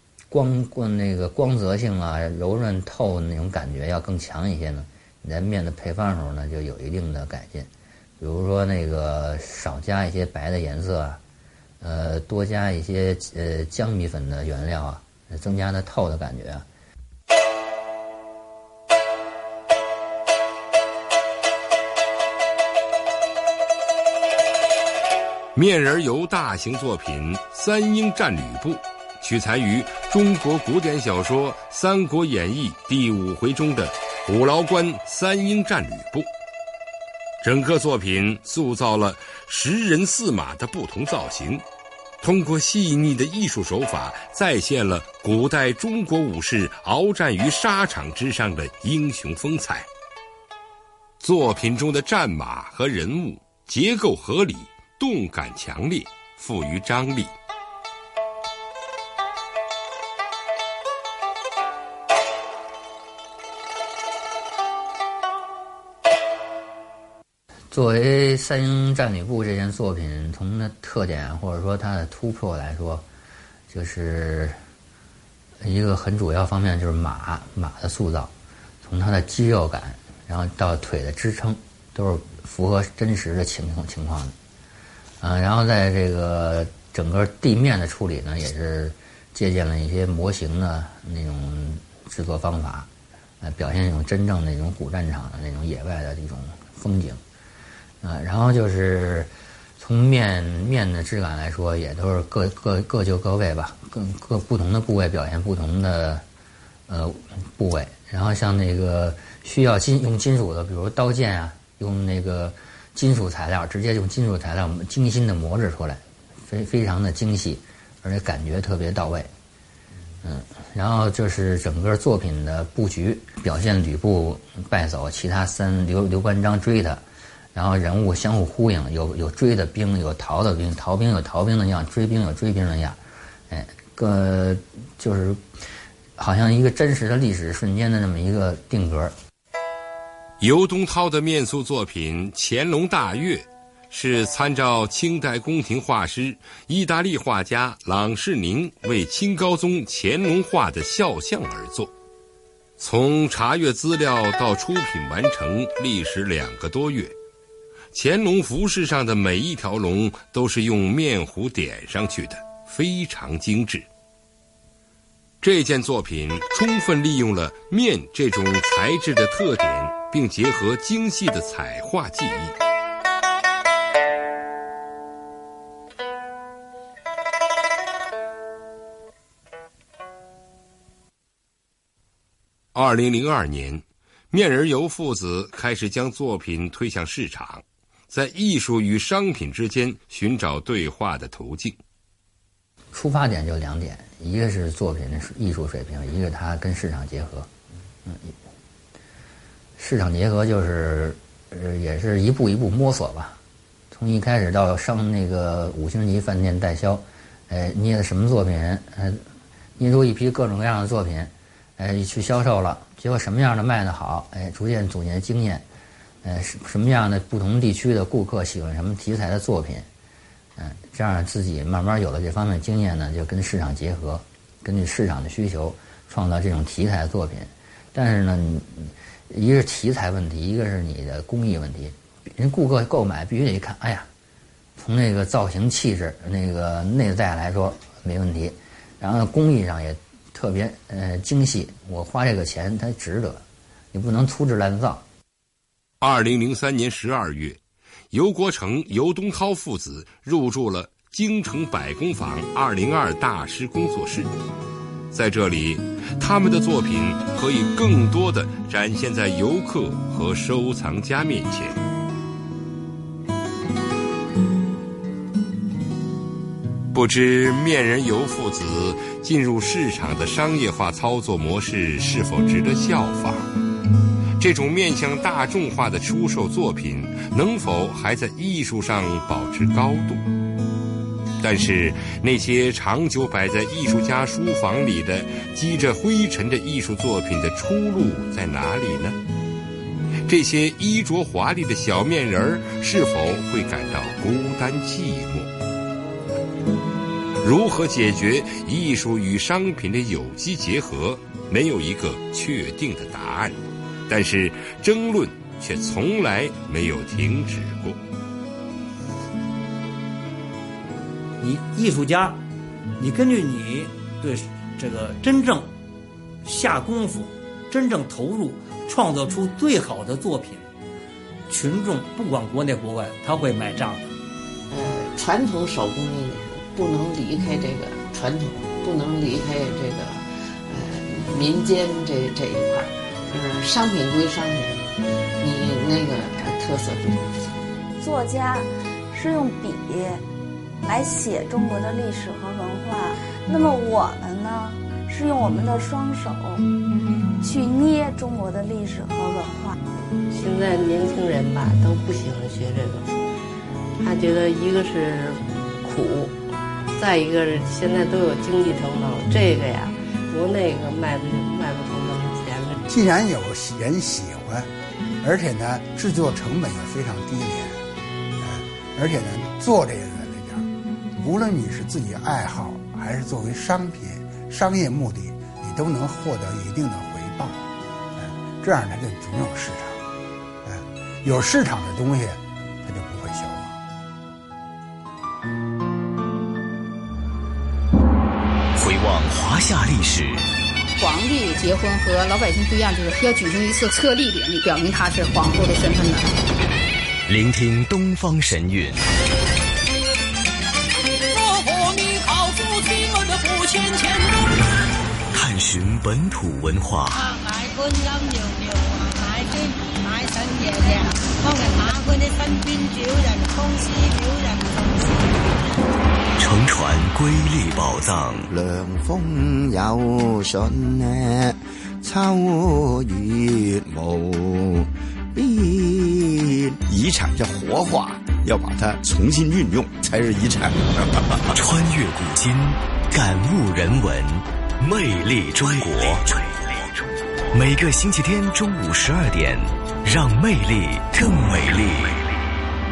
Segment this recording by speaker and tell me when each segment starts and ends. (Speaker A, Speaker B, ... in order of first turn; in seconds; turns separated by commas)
Speaker A: 0.3-11.2, Speaker A: 11.8-16.6, Speaker B: 25.5-36.3, Speaker B: 37.4-41.6, Speaker B: 42.2-49.9, Speaker B: 51.2-57.3, Speaker A: 67.7-73.0, Speaker A: 73.7-74.6, Speaker A: 75.6-84.3, Speaker A: 85.2-92.9, Speaker A: 93.4-97.2, Speaker A: 98.0-106.2, Speaker A: 106.9-119.3, Speaker A: 120.2-127.0, Speaker A: 127.5-133.0, Speaker A: 133.5-135.4, Speaker A: 136.2-139.1, Speaker B: 140.4-151.9, Speaker B: 152.8-157.1, Speaker B: 157.9-163.8, Speaker B: 165.4-172.6, Speaker B: 182.7-191.8, Speaker A: 192.9-197.5, Speaker A: 198.0-198.3, Speaker A: 199.8-203.4, Speaker A: 203.9-209.2, Speaker A: 209.8-215.6, Speaker A: 216.2-219.9, Speaker A: 220.6-234.1, Speaker A: 234.8-245.0, Speaker B: 246.0-247.6, Speaker B: 248.1-254.3, Speaker B: 255.1-261.8, Speaker B: 266.9-273.5, Speaker B: 274.4-280.2, Speaker B: 281.4-289.2, Speaker B: 290.3-295.5, Speaker B: 297.4-308.0, Speaker C: 311.4-312.4, Speaker C: 313.0-315.7, Speaker C: 316.4-320.7, Speaker C: 321.5-324.1, Speaker D: 324.7-334.9, Speaker D: 335.4-337.5, Speaker E: 338.0-340.2, Speaker E: 340.8-346.6, Speaker E: 347.4-349.7, Speaker F: 350.3-353.1, Speaker F: 354.0-356.4, Speaker F: 356.9-362.8, Speaker G: 362.9-364.7, Speaker G: 365.2-367.8, Speaker G: 368.4-377.6, Speaker G: 378.1-380.0, Speaker G: 380.6-383.8, Speaker H: 388.8-390.4, Speaker I: 391.0-396.3, Speaker H: 397.3-399.0, Speaker H: 405.3-407.2, Speaker I: 407.1-415.5, Speaker H: 416.4-418.3, Speaker J: 418.5-431.6, Speaker H: 431.7-436.2, Speaker H: 437.5-442.1